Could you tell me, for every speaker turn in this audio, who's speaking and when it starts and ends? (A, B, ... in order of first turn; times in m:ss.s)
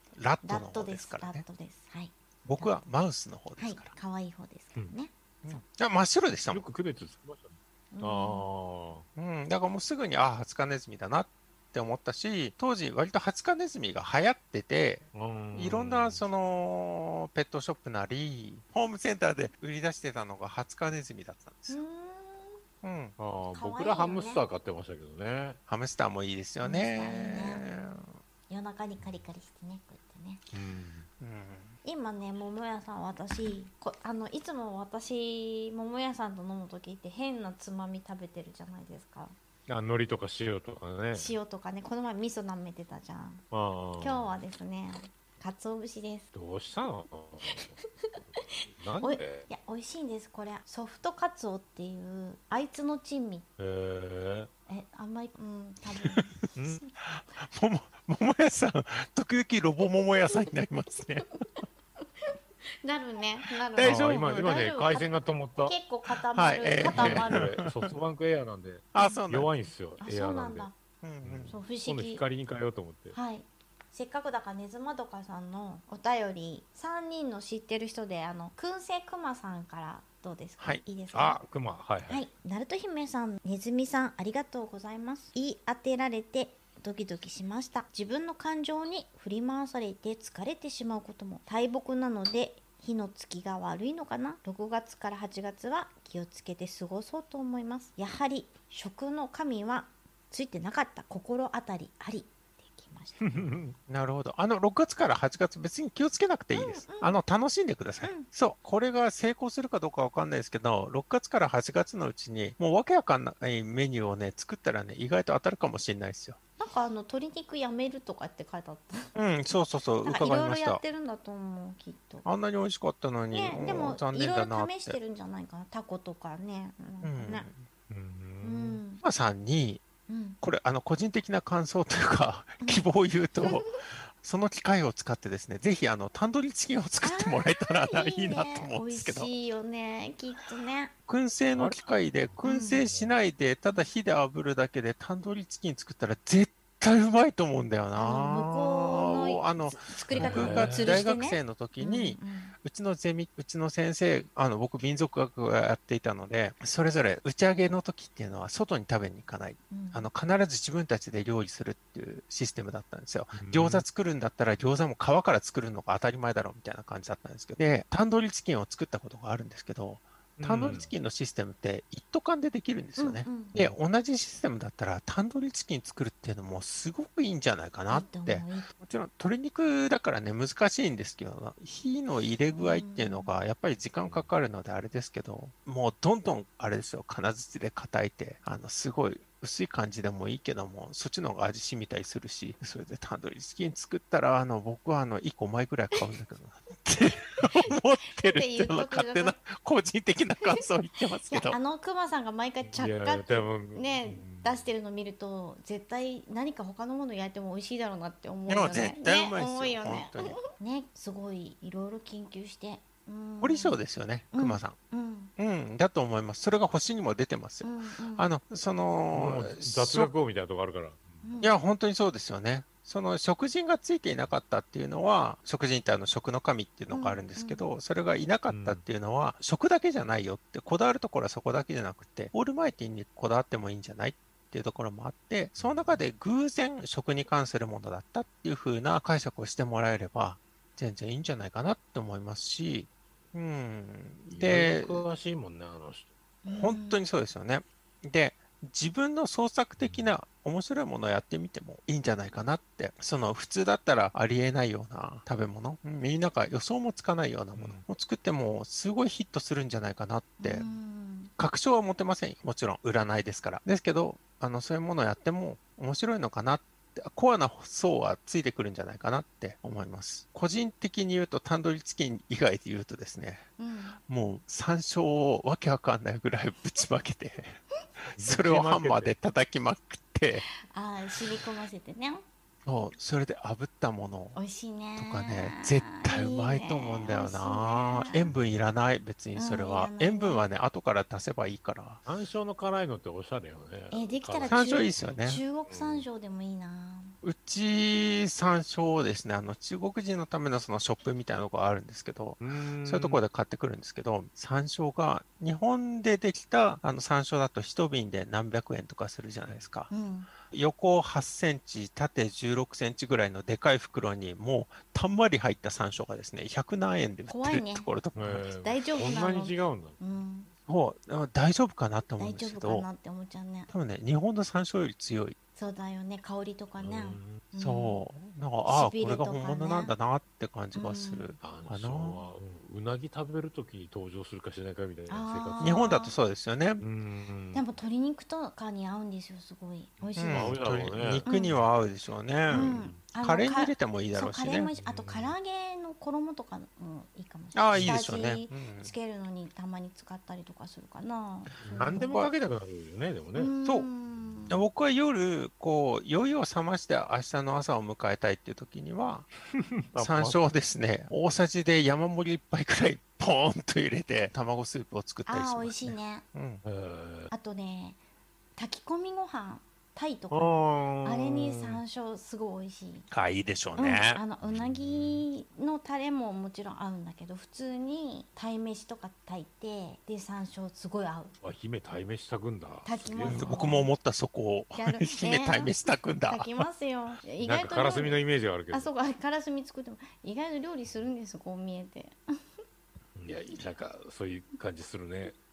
0:00.2-0:01.4 A
0:00.4-0:02.8 B
0:02.4-0:04.0 A
0:03.6-0:05.6 B
0:05.4-0:06.6 A
0:06.5-0:09.1 C
0:07.9-0:08.4 B
0:09.2-0:21.8 A
0:15.1-0:16.2 C
0:21.7-0:22.6 B
0:22.8-0:23.2 A
0:23.2-0:25.6 C
0:23.5-0:24.4 B
0:25.7-0:28.1 A
0:26.6-0:27.7 B
0:28.5-0:30.4 B
0:29.0-0:29.3 C
0:30.5-0:31.1 C
0:31.2-0:31.8 A
0:31.8-0:39.4 B
0:39.7-0:41.4 C
0:41.1-0:43.4 B
0:43.5-0:44.4 C
0:44.0-0:46.3 B
0:46.3-0:49.5 C
0:49.0-0:53.5 B
0:53.6-0:54.5 C
0:54.7-0:56.9 B
0:56.6-0:56.8 C
0:57.0-1:01.3 A
1:02.8-1:07.5 B
1:03.8-1:04.5 A
1:03.8-1:05.8 C
1:06.4-1:07.9 A
1:06.9-1:10.7 C
1:08.9-1:09.5 A
1:10.0-1:10.8 B
1:11.0-1:11.6 A
1:11.2-1:13.2 C
1:11.5-1:12.2 B
1:13.1-1:21.4 B
1:21.1-1:22.2 C
1:22.1-1:43.4 B
1:43.2-1:43.8 C
1:43.9-1:56.4 A
1:46.5-1:47.2 B
1:48.0-1:48.3 B
1:56.6-1:59.1 B
1:59.2-2:00.8 A
2:00.0-2:02.3 B
2:02.2-2:05.0 A
2:03.3-2:07.5 B
2:07.0-2:07.6 A
2:07.9-2:08.8 C
2:08.4-2:09.0 B
2:09.0-2:09.8 A
2:10.1-2:10.4 B
2:10.4-2:19.3 A
2:13.4-2:13.7 B
2:17.0-2:21.0 B
2:21.1-3:21.6 A
2:21.6-2:23.1 C
2:22.4-2:22.8 B
2:28.0-2:32.6 B
2:30.1-2:31.0 C
2:39.7-2:40.1 B
2:43.3-2:43.8 C
2:50.4-2:50.9 C
2:53.0-2:53.6 B
2:57.9-2:58.7 B
3:02.6-3:03.3 B
3:04.0-3:04.3 C
3:18.1-3:19.4 B
3:21.2-3:33.8 B
3:22.6-3:24.7 C
3:28.5-3:30.4 A
3:33.4-3:34.8 A
3:34.3-3:35.3 B
3:35.4-3:40.1 A
3:37.6-3:38.3 B
3:39.1-3:41.2 C
3:41.2-3:41.5 B
3:41.4-4:05.0 A
3:46.9-3:47.6 B
3:48.5-3:48.8 C
3:55.6-3:56.0 C
4:04.3-4:06.1 C
4:06.4-4:07.0 B
4:06.5-4:20.7 A
4:09.8-4:10.1 C
4:17.6-4:17.8 C
4:20.4-4:21.3 B
4:21.4-4:33.5 A
4:33.6-4:34.0 B
4:34.1-4:37.6 A
4:38.1-4:40.5 A
4:38.2-4:39.1 C
4:40.7-4:42.2 B
4:42.7-4:44.4 A
4:44.4-4:48.3 B
4:45.0-4:52.0 A
4:49.4-4:50.5 B
4:52.1-4:55.1 C
4:53.9-4:57.2 B
4:54.5-4:55.4 A
4:55.7-4:56.1 C
4:57.2-5:09.9 A
5:02.4-5:03.2 C
5:09.5-5:09.7 C
5:09.9-5:10.3 B
5:10.4-5:18.5 A
5:17.3-5:17.9 B
5:18.2-5:20.0 C
5:18.5-5:20.5 B
5:20.7-5:22.9 A
5:22.2-5:23.7 B
5:23.7-5:25.4 A
5:25.6-5:28.0 B
5:26.8-5:27.4 C
5:27.6-5:32.2 A
5:28.7-5:29.9 B
5:30.8-5:31.3 B
5:31.4-5:36.0 C
5:35.1-5:36.1 B
5:35.6-5:36.8 A
5:36.8-5:37.7 C
5:37.5-5:40.6 B
5:40.0-5:41.7 C
5:40.2-5:44.7 A
5:41.2-5:41.6 B
5:42.5-5:43.0 C
5:42.5-5:52.2 B
5:44.8-5:45.4 C
5:47.6-5:48.9 A
5:47.7-5:48.0 C
5:51.6-5:53.5 C
5:52.0-5:52.3 A
5:53.4-5:54.6 B
5:53.6-5:53.9 A
5:54.5-5:59.3 A
5:59.8-6:00.4 C
6:00.0-6:06.6 A
6:05.3-6:06.3 B
6:06.6-6:07.3 C
6:07.3-6:08.0 B
6:08.6-6:13.1 B
6:10.3-6:11.8 C
6:13.1-6:14.2 A
6:13.8-6:21.4 B
6:14.4-6:15.3 C
6:21.4-6:23.7 C
6:22.8-6:23.9 B
6:23.3-6:26.5 A
6:24.8-6:25.8 B
6:26.3-6:32.2 B
6:27.4-6:28.9 C
6:33.2-6:35.4 C